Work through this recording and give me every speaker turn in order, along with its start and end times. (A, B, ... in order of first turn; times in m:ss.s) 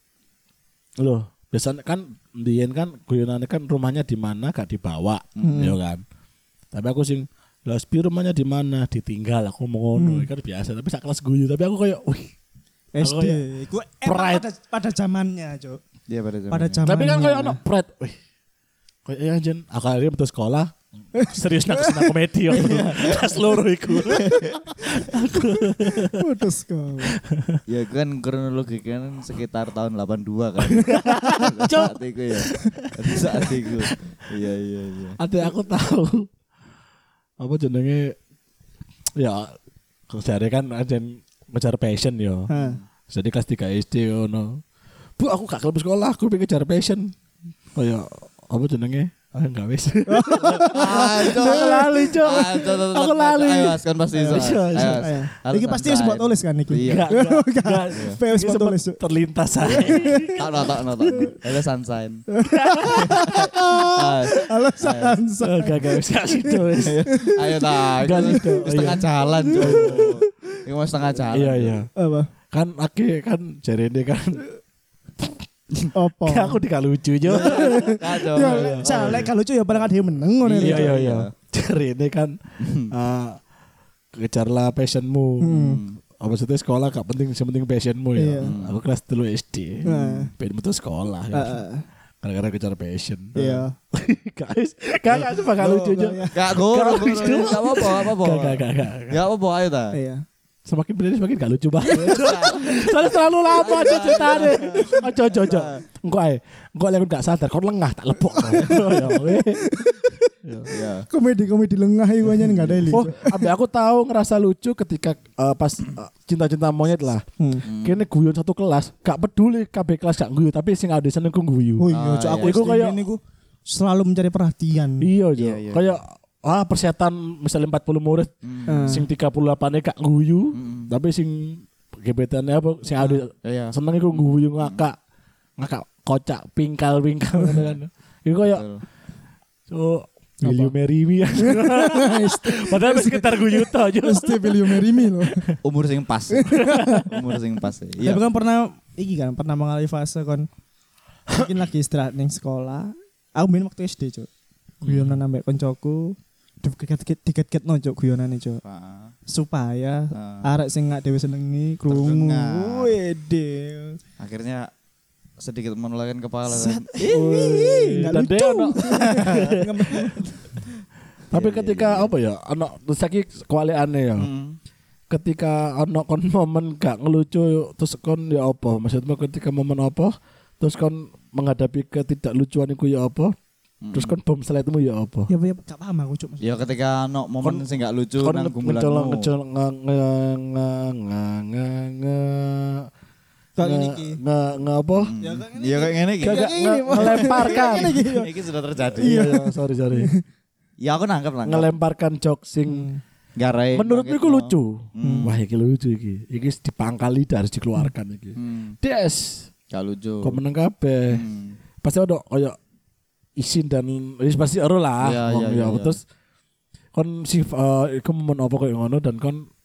0:01.0-0:06.0 A
0:05.4-0:05.8 B
0:06.7-0:12.3 A
0:09.9-0:10.3 B
0:12.9-0:15.8 B
0:13.0-0:13.4 A
0:14.0-0:14.4 A
0:16.1-0:16.8 C
0:16.5-0:17.6 B
0:16.8-0:18.2 A
0:19.0-0:26.2 A
0:21.2-0:22.1 B
0:22.5-0:24.6 C
0:26.1-0:27.2 B
0:27.1-0:27.6 A
0:27.7-0:35.2 C
0:30.7-0:32.0 A
0:32.5-0:33.2 B
0:32.6-0:34.1 A
0:35.2-0:36.3 A
0:37.4-0:38.2 A
0:39.2-0:39.5 A
0:40.1-0:42.5 A
0:42.5-0:42.8 B
0:42.5-0:42.8 C
0:43.1-0:44.6 A
0:45.2-0:47.1 A
0:47.7-0:55.1 A
0:50.1-0:52.1 B
0:50.7-0:57.1 C
0:54.1-0:59.0 B
0:56.8-1:00.8 A
0:59.6-1:00.4 B
1:00.4-1:02.2 C
1:02.4-1:08.6 B
1:02.6-1:03.3 A
1:02.9-1:05.2 C
1:05.4-1:10.2 A
1:06.8-1:11.8 C
1:09.2-1:10.3 B
1:11.3-1:11.9 A
1:11.9-1:12.3 B
1:12.5-1:14.4 A
1:15.9-1:16.6 B
1:16.2-1:19.3 A
1:17.3-1:19.3 C
1:17.3-1:20.9 B
1:20.4-1:21.3 C
1:20.6-1:22.3 A
1:22.6-1:22.9 C
1:22.9-1:23.4 A
1:24.2-1:25.6 A
1:25.4-1:25.8 B
1:25.6-1:26.0 C
1:26.2-1:31.6 A
1:28.2-1:28.5 B
1:28.4-1:28.8 C
1:29.8-1:30.3 B
1:29.9-1:30.2 C
1:31.3-1:31.8 B
1:32.2-1:33.4 A
1:33.3-1:33.7 B
1:33.4-1:33.6 C
1:33.9-1:39.2 A
1:35.6-1:36.4 B
1:36.3-1:40.0 C
1:37.2-1:37.5 B
1:39.9-1:40.2 B
1:40.6-1:49.6 A
1:41.8-1:45.0 C
1:45.4-1:45.8 B
1:48.3-1:53.5 B
1:50.4-1:50.7 A
1:50.7-1:51.1 C
1:52.4-2:03.0 A
1:57.4-1:57.7 B
1:57.6-1:58.0 C
2:01.8-2:05.1 B
2:01.9-2:02.6 C
2:05.0-2:15.0 A
2:05.4-2:06.0 C
2:08.4-2:08.8 C
2:08.6-2:09.1 B
2:10.5-2:10.9 C
2:13.0-2:14.8 C
2:15.6-2:18.7 A
2:18.5-2:18.8 C
2:19.7-2:25.6 A
2:20.4-2:20.7 B
2:21.4-2:25.4 B
2:25.6-2:28.2 C
2:26.3-2:27.0 B
2:26.6-2:27.0 A
2:28.0-2:30.5 B
2:31.3-2:34.3 B
2:34.8-2:35.2 A
2:34.8-2:38.6 B
2:38.6-2:39.1 C
2:39.3-2:44.0 B
2:40.1-2:40.5 C
2:41.9-2:43.0 C
2:44.2-2:44.7 C
2:45.4-2:47.1 C
2:46.5-2:50.6 B
2:47.0-2:50.0 A
2:51.3-2:52.1 C
2:51.3-2:54.3 A
2:54.2-2:54.6 C
2:55.1-3:03.3 A
3:03.8-3:04.2 C
3:03.9-3:05.3 A
3:05.3-3:06.6 B
3:06.4-3:09.3 C
3:07.4-3:07.7 A
3:08.2-3:12.9 A
3:13.6-3:14.2 B
3:13.6-3:15.1 A
3:14.9-3:19.3 C
3:15.2-3:18.3 B
3:16.2-3:18.0 A
3:18.9-3:20.1 A
3:19.0-3:20.2 B
3:20.8-3:21.8 C
3:21.4-3:22.9 A
3:22.6-3:23.0 B
3:23.4-3:25.4 C
3:23.7-3:29.5 A
3:25.0-3:25.3 B
3:28.4-3:28.8 C
3:29.7-3:30.4 C
3:30.2-3:31.2 A
3:31.1-3:31.6 C
3:31.8-3:32.6 A
3:33.4-3:36.0 A
3:35.0-3:36.0 C
3:36.9-3:39.4 A